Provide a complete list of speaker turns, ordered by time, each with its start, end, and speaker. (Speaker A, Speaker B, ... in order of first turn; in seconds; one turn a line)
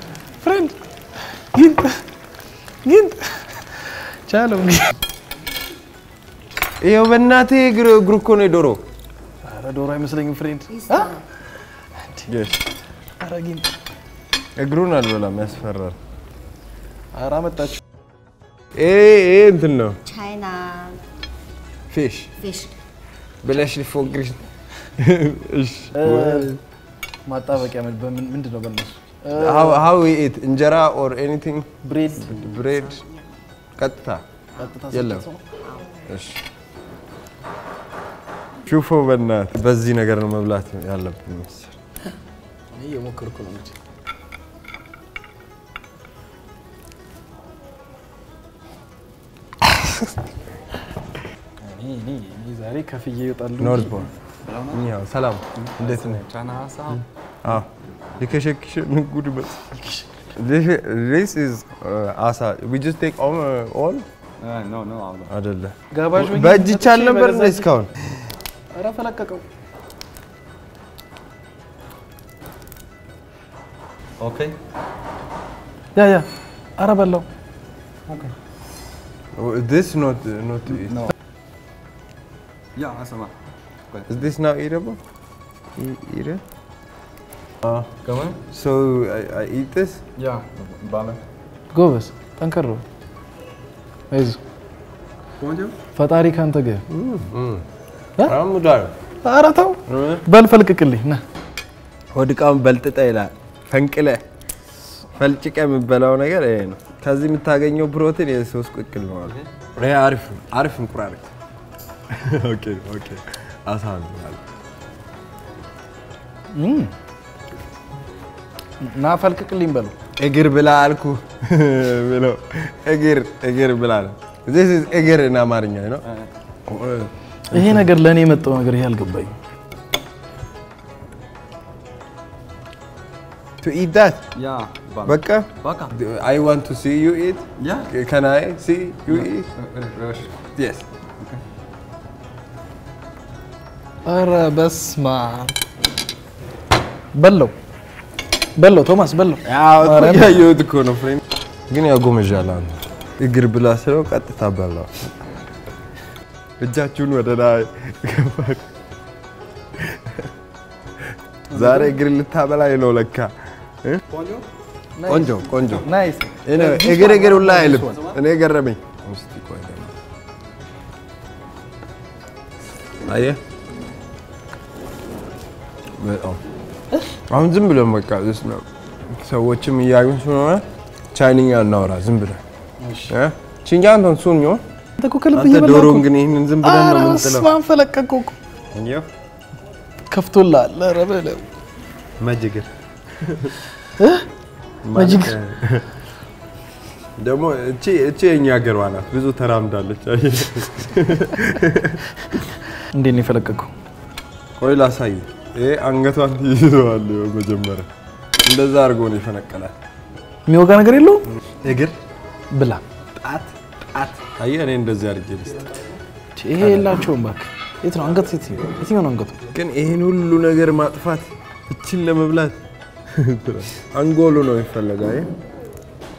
Speaker A: 0.4-0.7
Speaker A: 1.3-2.0
Speaker A: 2.8-5.0
Speaker B: 6.8-8.8
Speaker A: 9.4-11.2
Speaker C: 10.7-11.2
Speaker A: 11.9-12.5
Speaker B: 12.3-12.6
Speaker A: 13.2-13.7
Speaker B: 14.6-16.0
Speaker A: 17.1-17.8
Speaker B: 18.7-20.0
Speaker C: 20.0-21.0
Speaker B: 21.9-22.3
Speaker C: 22.4-22.7
Speaker B: 23.4-24.4
Speaker B: 24.9-26.6
Speaker A: 25.9-26.5
Speaker A: 27.2-29.8
Speaker B: 29.3-33.0
Speaker A: 31.8-32.5
Speaker C: 32.3-33.4
Speaker B: 33.8-34.2
Speaker A: 34.6-35.4
Speaker B: 34.9-35.2
Speaker C: 35.6-36.0
Speaker B: 36.0-36.4
Speaker B: 38.6-41.8
Speaker A: 42.7-43.7
Speaker A: 51.6-54.1
Speaker B: 53.6-54.1
Speaker D: 54.4-54.8
Speaker B: 54.7-56.2
Speaker D: 55.6-57.0
Speaker B: 57.4-59.7
Speaker A: 59.7-60.2
Speaker B: 60.3-64.0
Speaker D: 64.4-65.3
Speaker B: 65.3-67.9
Speaker A: 65.9-67.7
Speaker A: 68.7-69.4
Speaker D: 74.2-74.5
Speaker A: 75.9-77.2
Speaker D: 78.1-78.3
Speaker B: 79.3-81.1
Speaker D: 82.8-83.3
Speaker D: 83.9-84.2
Speaker B: 84.1-85.0
Speaker B: 85.8-86.4
Speaker D: 88.0-88.4
Speaker B: 88.5-90.0
Speaker D: 90.2-91.2
Speaker A: 91.7-92.8
Speaker A: 94.1-94.4
Speaker D: 95.4-95.7
Speaker A: 95.9-96.8
Speaker B: 96.9-97.6
Speaker B: 98.2-99.0
Speaker A: 99.2-101.2
Speaker B: 99.8-100.2
Speaker B: 102.1-104.2
Speaker B: 105.1-111.3
Speaker B: 112.1-114.4
Speaker A: 116.5-116.9
Speaker A: 118.8-120.0
Speaker B: 120.2-126.0
Speaker B: 126.7-127.9
Speaker A: 127.5-129.3
Speaker B: 133.6-134.2
Speaker D: 134.3-135.9
Speaker B: 135.0-139.5
Speaker D: 137.6-137.9
Speaker D: 139.2-140.4
Speaker B: 140.5-140.8
Speaker A: 144.1-145.6
Speaker A: 147.1-147.5
Speaker A: 148.6-150.4
Speaker B: 149.4-155.2
Speaker B: 156.6-158.7
Speaker B: 159.8-160.3
Speaker B: 161.5-164.0
Speaker A: 161.5-161.9
Speaker D: 164.1-164.5
Speaker A: 165.0-168.1
Speaker B: 165.1-165.9
Speaker B: 166.4-169.9
Speaker B: 173.0-173.4
Speaker B: 176.0-176.4
Speaker B: 177.3-182.4
Speaker A: 182.8-183.1
Speaker B: 183.1-184.6
Speaker A: 185.0-186.1
Speaker B: 185.3-187.5
Speaker A: 186.6-188.3
Speaker B: 188.7-189.1
Speaker A: 190.1-191.4
Speaker B: 192.2-193.5
Speaker A: 194.0-194.3
Speaker B: 194.8-195.9
Speaker A: 194.9-195.3
Speaker B: 197.2-202.1
Speaker A: 202.4-203.7
Speaker B: 204.6-207.9
Speaker B: 208.4-209.7
Speaker A: 210.4-211.3
Speaker B: 211.4-211.9
Speaker A: 212.5-212.8
Speaker B: 213.2-215.7
Speaker A: 216.3-219.4
Speaker B: 216.6-217.1
Speaker B: 219.5-222.6
Speaker B: 223.1-225.3